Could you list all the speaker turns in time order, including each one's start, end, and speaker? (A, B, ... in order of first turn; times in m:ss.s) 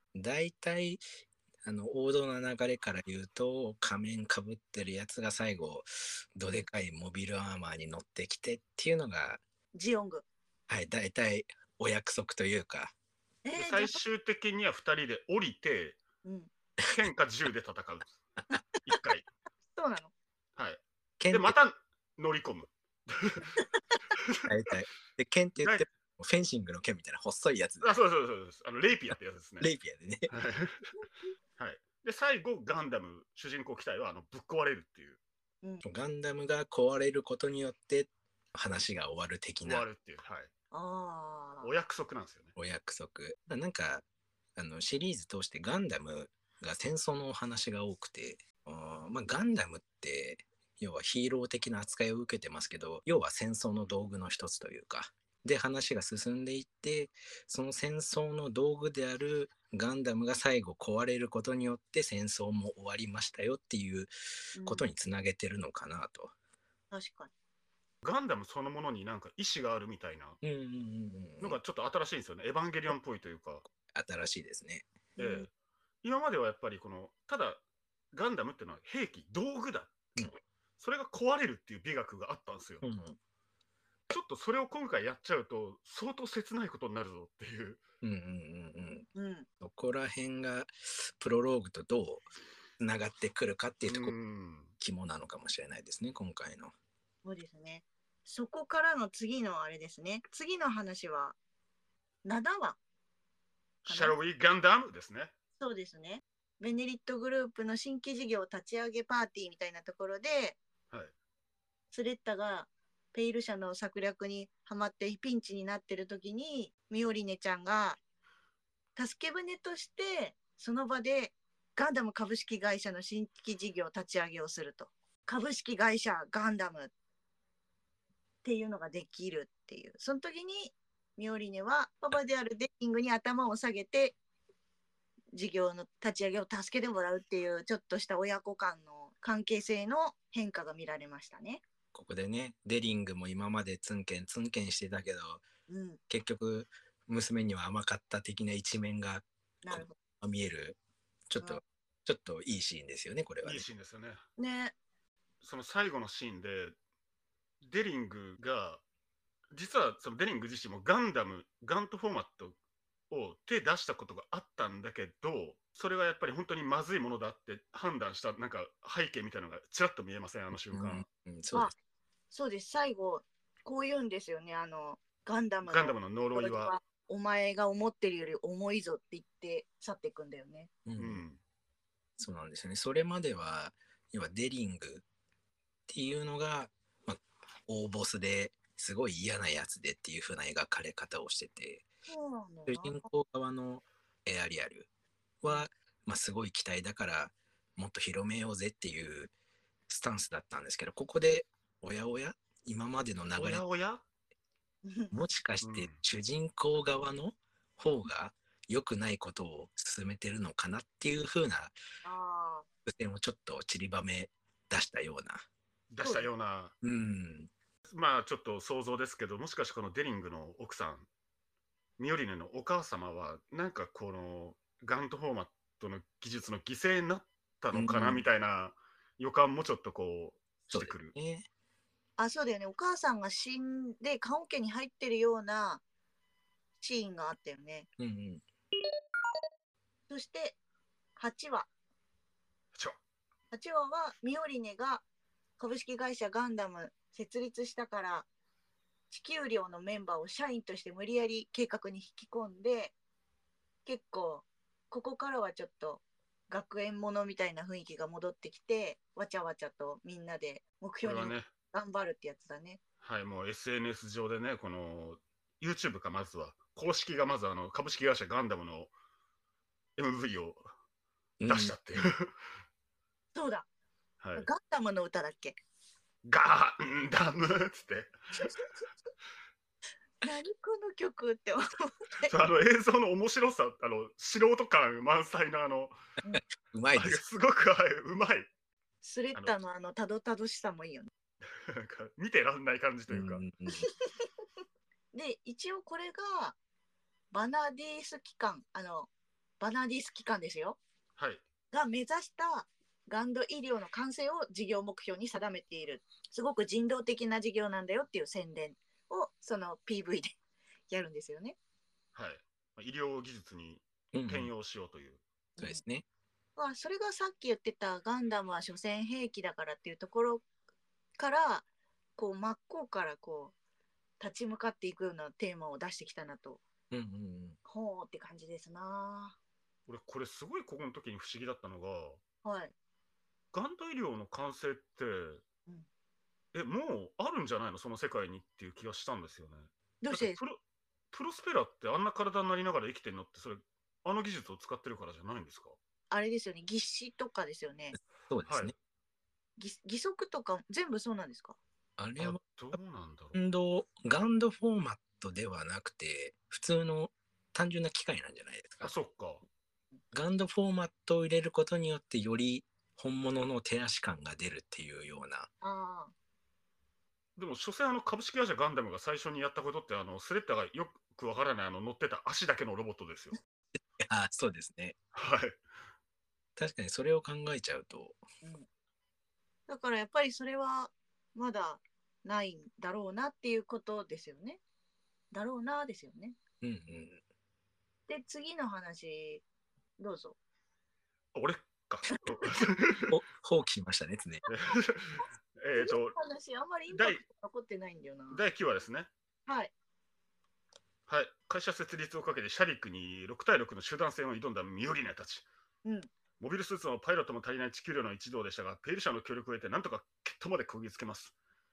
0:00.1-0:01.0 A
0:01.6-0:09.4 A
0:09.7-0:10.2 B
0:10.7-0:12.9 A
0:13.4-0:14.0 B
0:13.6-0:16.0 C
0:16.2-0:16.5 B
0:16.9-0:18.1 C
0:18.8-0:19.3 C
0:19.7-0:20.1 B
0:20.6-0:23.5 C
0:21.2-0:21.5 A
0:24.2-0:24.5 C
0:24.4-0:28.0 A
0:25.6-0:25.8 C
0:27.8-0:29.7 C
0:29.1-0:30.3 A
0:30.3-0:30.9 C
0:31.6-0:35.2 C
0:35.8-0:39.8 A
0:39.6-0:40.5 C
0:40.7-0:41.7 B
0:41.6-0:42.5 C
0:42.6-0:44.0 A
0:44.6-1:06.3 A
1:04.6-1:04.9 B
1:06.9-1:07.3 B
1:08.0-1:10.4 C
1:10.4-1:11.6 A
1:11.4-1:13.6 C
1:13.9-1:14.9 A
1:15.2-1:15.5 B
1:15.2-1:15.5 C
1:16.0-1:20.1 C
1:20.8-1:22.8 C
1:22.8-1:23.2 A
1:24.1-1:27.8 C
1:28.0-1:29.1 A
1:29.1-1:29.4 B
1:29.6-1:32.3 A
1:32.8-1:34.1 A
1:33.9-1:34.7 C
1:34.8-1:36.7 A
1:37.2-1:41.4 B
1:42.2-1:42.8 B
1:43.8-1:45.3 C
1:43.9-1:44.2 B
1:45.6-1:50.6 B
1:51.9-1:58.0 B
1:59.0-2:06.9 B
2:08.4-2:14.2 B
2:15.3-2:21.6 B
2:21.9-2:25.4 A
2:25.7-2:26.0 B
2:26.1-2:30.8 A
2:29.6-2:30.0 B
2:31.3-2:33.7 A
2:33.4-2:34.2 C
2:34.4-2:34.7 B
2:35.4-2:36.7 C
2:37.6-2:38.8 C
2:39.5-2:42.6 C
2:43.1-2:51.0 C
2:50.7-2:51.7 A
2:52.3-3:00.7 B
2:55.6-2:56.7 C
3:00.8-3:01.2 A
3:01.0-3:01.4 C
3:02.2-3:05.0 A
3:05.9-3:11.8 A
3:12.1-3:13.1 B
3:12.7-3:14.9 A
3:15.4-3:19.3 A
3:19.9-3:23.6 A
3:23.4-3:24.0 C
3:24.8-3:25.2 B
3:25.1-3:31.7 A
3:25.6-3:26.0 C
3:32.0-3:32.6 B
3:32.8-3:35.4 A
3:35.9-3:36.7 C
3:36.0-3:36.3 B
3:36.8-3:37.5 A
3:37.9-3:41.1 C
3:42.0-3:51.1 C
3:47.7-3:48.2 A
3:50.7-3:51.5 A
3:52.2-3:55.8 B
3:56.8-3:57.9 B
3:58.0-3:58.4 A
4:00.1-4:00.6 B
4:01.2-4:01.7 B
4:03.5-4:05.0 B
4:05.6-4:08.3 B
4:09.1-4:12.9 B
4:13.8-4:22.8 B
4:21.0-4:21.5 C
4:23.0-4:28.9 C
4:30.0-4:30.6 C
4:31.4-4:31.7 A
4:31.4-4:32.3 C
4:33.3-4:33.7 B
4:34.2-4:34.5 C
4:34.4-4:35.6 B
4:36.2-4:38.1 C
4:40.2-4:42.3 B
4:42.3-4:45.9 C
4:46.3-4:47.2 A
4:47.0-4:48.5 C
4:49.0-4:51.1 B
4:51.5-4:53.4 C
4:53.1-4:53.9 A
4:53.7-4:54.2 B
4:55.1-4:56.6 B
4:57.3-4:59.1 B
4:59.6-5:00.8 B
5:01.2-5:01.4 C
5:01.7-5:10.4 B
5:10.9-5:11.6 B
5:12.1-5:15.2 C
5:14.1-5:14.5 A
5:15.6-5:16.0 A
5:16.6-5:20.4 B
5:21.2-5:23.5 B
5:24.2-5:26.6 B
5:26.9-5:27.6 A
5:27.6-5:29.4 B
5:29.9-5:32.2 C
5:32.4-5:32.7 B
5:33.5-5:35.4 C
5:36.5-5:40.6 C
5:40.0-5:40.4 B
5:41.1-5:45.8 C
5:46.1-5:48.0 B
5:48.3-5:48.7 A
5:48.4-5:48.7 C
5:49.6-5:51.6 B
5:52.0-5:52.8 A
5:52.2-5:53.4 C
5:53.3-5:58.9 A
5:58.8-5:59.4 C
6:00.1-6:05.5 A
6:05.6-6:06.1 B
6:07.4-6:13.4 C
6:14.0-6:15.0 A
6:15.1-6:15.6 C
6:16.6-6:18.2 A
6:19.7-6:24.6 B
6:25.3-6:26.4 B
6:26.6-6:27.2 A
6:28.1-6:29.4 B
6:30.0-6:30.4 B
6:31.3-6:33.1 C
6:33.1-6:34.4 A
6:34.5-6:36.2 C
6:35.8-6:38.4 B
6:36.9-6:37.2 C
6:38.3-6:39.1 C
6:39.5-6:39.7 B
6:41.1-6:45.4 C
6:46.4-6:51.3 C